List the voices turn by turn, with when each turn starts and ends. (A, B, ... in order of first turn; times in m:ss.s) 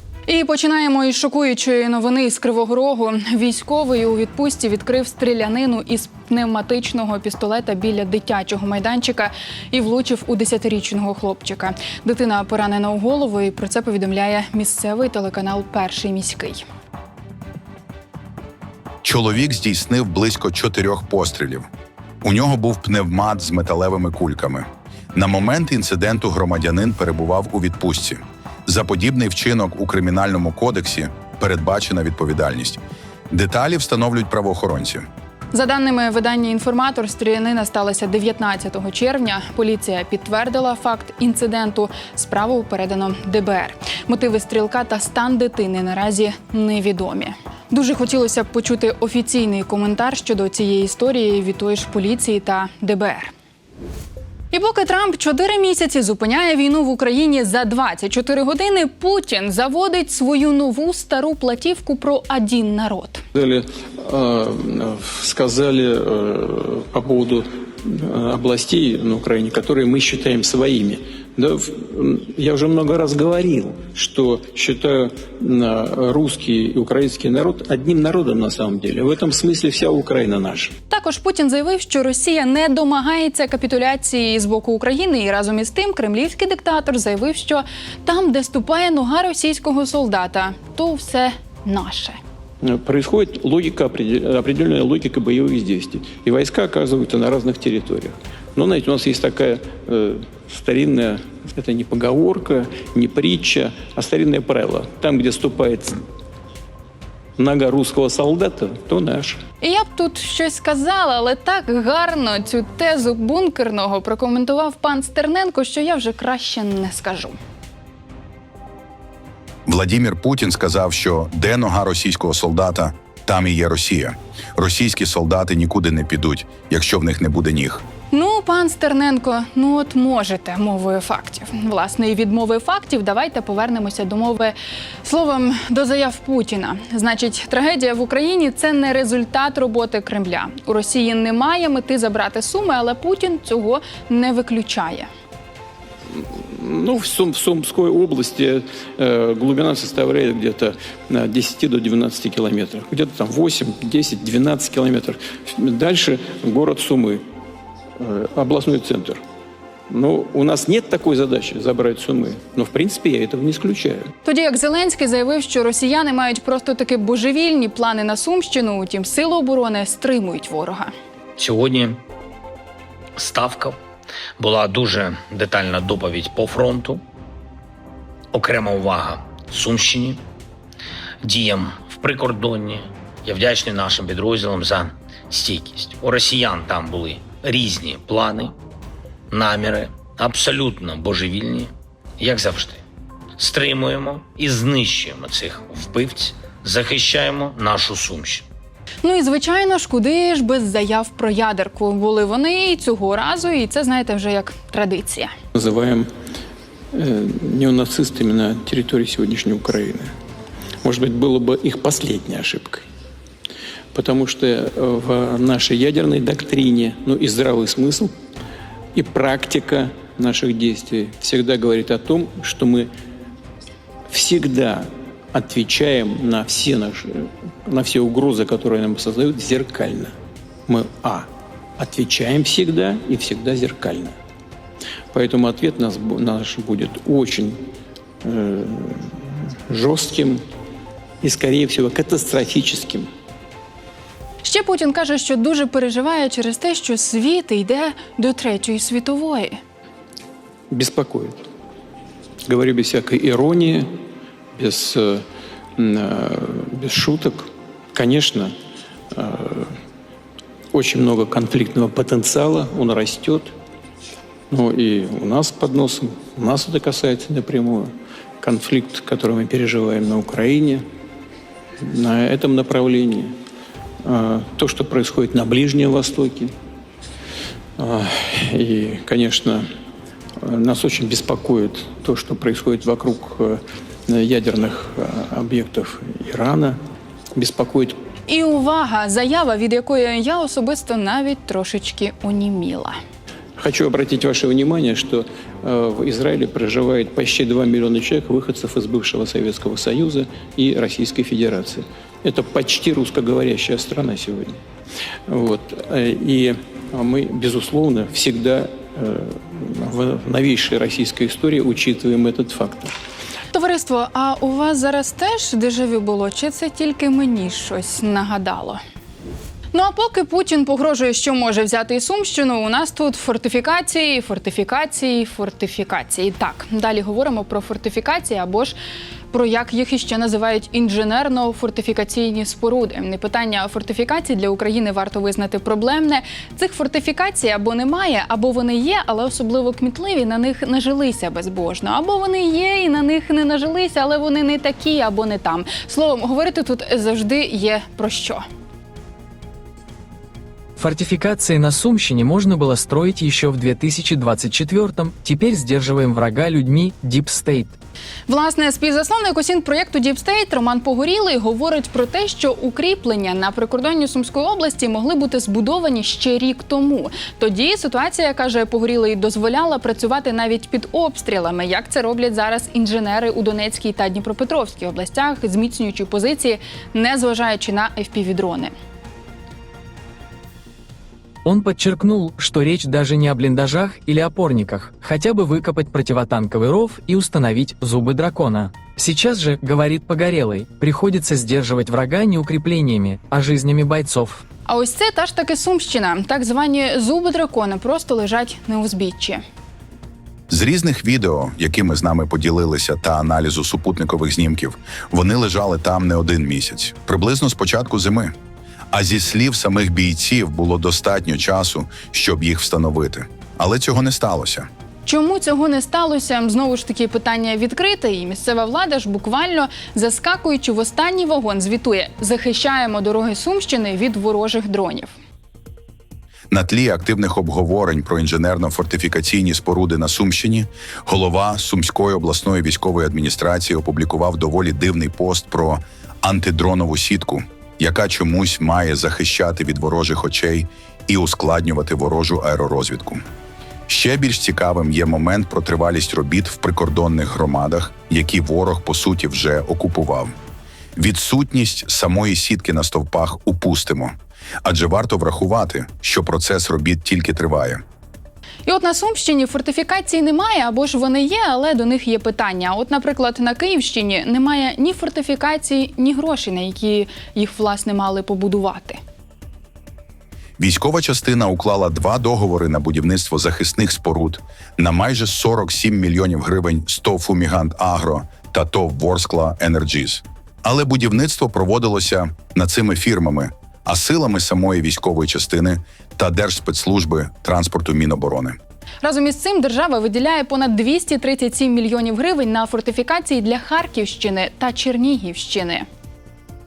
0:00.3-0:16.6 A
0:19.0-0:21.7 B
0:22.2-0:32.8 B
0:33.3-0:35.1 B
0:35.5-0:53.3 A
0:54.5-1:03.2 A
1:03.3-1:20.7 C
1:20.9-1:32.2 A
1:32.6-1:46.0 C
1:47.4-1:49.4 C
1:49.6-1:57.4 A
1:59.6-2:07.8 B
2:08.1-2:25.1 A
2:26.1-2:37.2 C
2:38.0-2:39.2 C
2:39.9-2:44.1 C
2:44.2-2:50.9 A
2:51.4-2:52.0 D
2:53.2-2:53.8 D
2:54.4-2:57.0 D
2:58.3-3:00.2 D
3:01.2-3:08.5 D
3:09.3-3:12.8 D
3:13.4-3:18.4 D
3:19.0-3:25.3 A
3:25.5-3:26.1 C
3:26.9-3:30.1 C
3:30.8-3:32.8 C
3:33.9-3:38.1 C
3:38.9-3:42.9 C
3:44.1-3:50.1 C
3:50.7-3:51.3 C
3:51.8-3:54.1 C
3:55.1-3:57.6 C
3:58.2-4:00.4 C
4:01.2-4:03.1 C
4:04.4-4:09.6 A
4:10.7-4:11.4 C
4:12.5-4:13.9 C
4:14.6-4:15.2 C
4:15.8-4:18.5 C
4:19.1-4:19.7 C
4:20.7-4:23.5 C
4:24.5-4:30.8 C
4:31.8-4:33.3 C
4:34.0-4:36.5 C
4:37.8-4:39.7 C
4:40.4-4:46.8 C
4:47.3-4:48.0 C
4:48.3-4:53.0 A
4:53.6-5:04.6 C
5:05.3-5:12.9 C
5:13.5-5:18.8 A
5:19.7-5:28.8 A
5:29.3-5:48.4 A
5:50.8-5:57.8 E
5:58.3-6:18.7 A
6:21.4-6:34.4 E
6:34.7-6:39.4 A
6:40.5-6:48.3 B
6:48.9-6:54.7 B
6:55.0-7:05.1 A
7:06.5-7:23.2 B
7:23.9-7:30.3 B
7:31.0-7:37.8 B
7:38.6-7:49.0 A
7:50.6-8:08.6 B
8:09.0-8:15.9 A